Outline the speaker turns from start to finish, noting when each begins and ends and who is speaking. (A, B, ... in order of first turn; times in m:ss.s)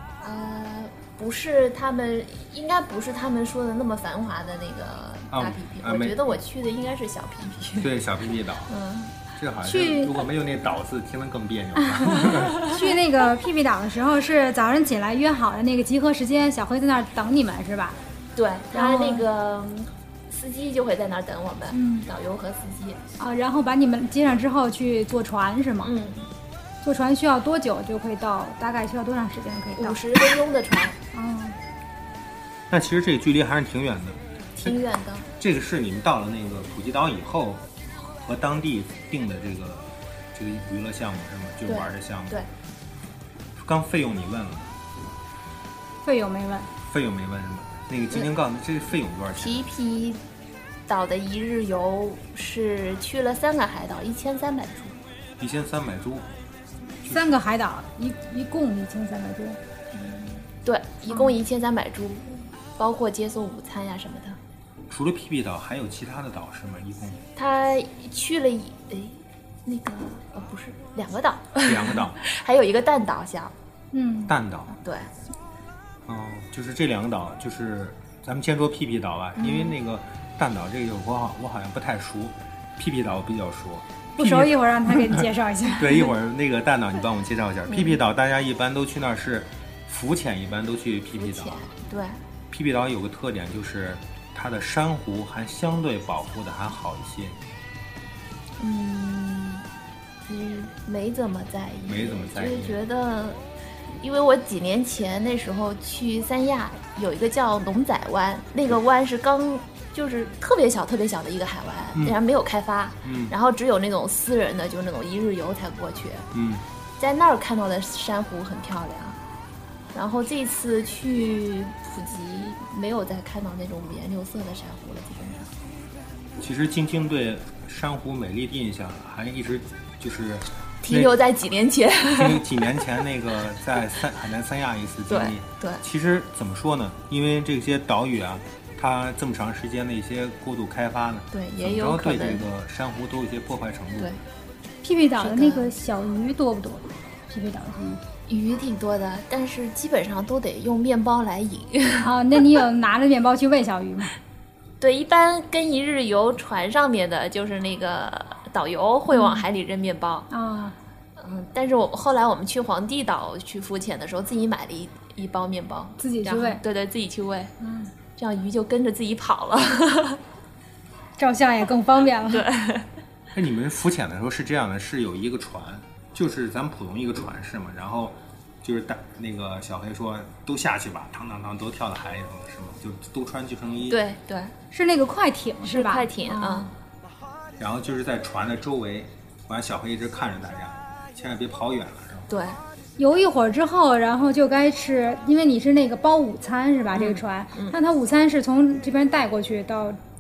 0:00.2-0:07.9 A
0:05.3-0:06.2 B
0:07.8-0:08.7 B
0:08.7-0:09.1 A
0:09.4-0:12.6 B
0:09.6-0:10.2 C
0:11.9-0:18.0 C
0:18.4-0:23.0 A
0:18.7-0:19.3 C
0:21.7-0:22.1 C
0:23.2-0:25.9 C
0:25.8-0:26.2 A
0:26.8-0:30.0 C
0:29.8-0:31.0 A
0:31.1-0:31.6 C
0:32.7-0:34.8 B
0:34.6-0:35.3 A
0:35.3-0:42.4 B
0:41.7-0:42.5 A
0:43.6-0:44.8 B
0:46.0-0:46.7 C
0:46.9-0:49.6 B
0:49.4-0:50.2 A
0:50.9-0:54.9 A
0:55.4-0:56.2 B
0:57.1-0:59.6 C
0:59.9-1:04.4 A
1:04.9-1:07.2 B
1:07.4-1:13.5 A
1:11.6-1:12.2 B
1:13.9-1:14.3 C
1:14.3-1:14.7 B
1:14.8-1:15.1 A
1:16.1-1:25.2 B
1:19.4-1:19.8 A
1:24.2-1:26.1 C
1:25.8-1:31.7 B
1:27.7-1:28.0 A
1:31.2-1:32.2 A
1:32.5-1:37.4 B
1:38.6-1:39.6 A
1:40.3-1:43.4 A
1:41.9-1:42.8 B
1:44.0-1:56.3 A
1:53.0-1:53.3 B
1:56.3-1:56.6 B
1:57.0-1:59.2 A
1:59.9-2:05.5 A
2:06.4-2:11.1 B
2:10.8-2:12.6 A
2:12.1-2:24.2 B
2:15.1-2:15.8 A
2:21.3-2:22.4 A
2:24.8-2:28.0 C
2:25.2-2:25.7 A
2:28.3-2:32.1 A
2:32.0-2:34.2 C
2:34.8-2:40.3 A
2:39.1-2:39.4 C
2:40.3-2:40.8 C
2:41.2-2:47.5 A
2:46.0-2:46.6 C
2:47.6-2:47.9 C
2:48.2-2:50.2 A
2:51.2-2:52.5 C
2:52.3-2:52.9 A
2:53.3-3:04.0 B
3:03.9-3:04.5 A
3:04.7-3:06.7 C
3:05.7-3:06.7 A
3:07.6-3:12.3 B
3:12.3-3:12.6 A
3:13.0-3:20.0 C
3:16.9-3:17.8 A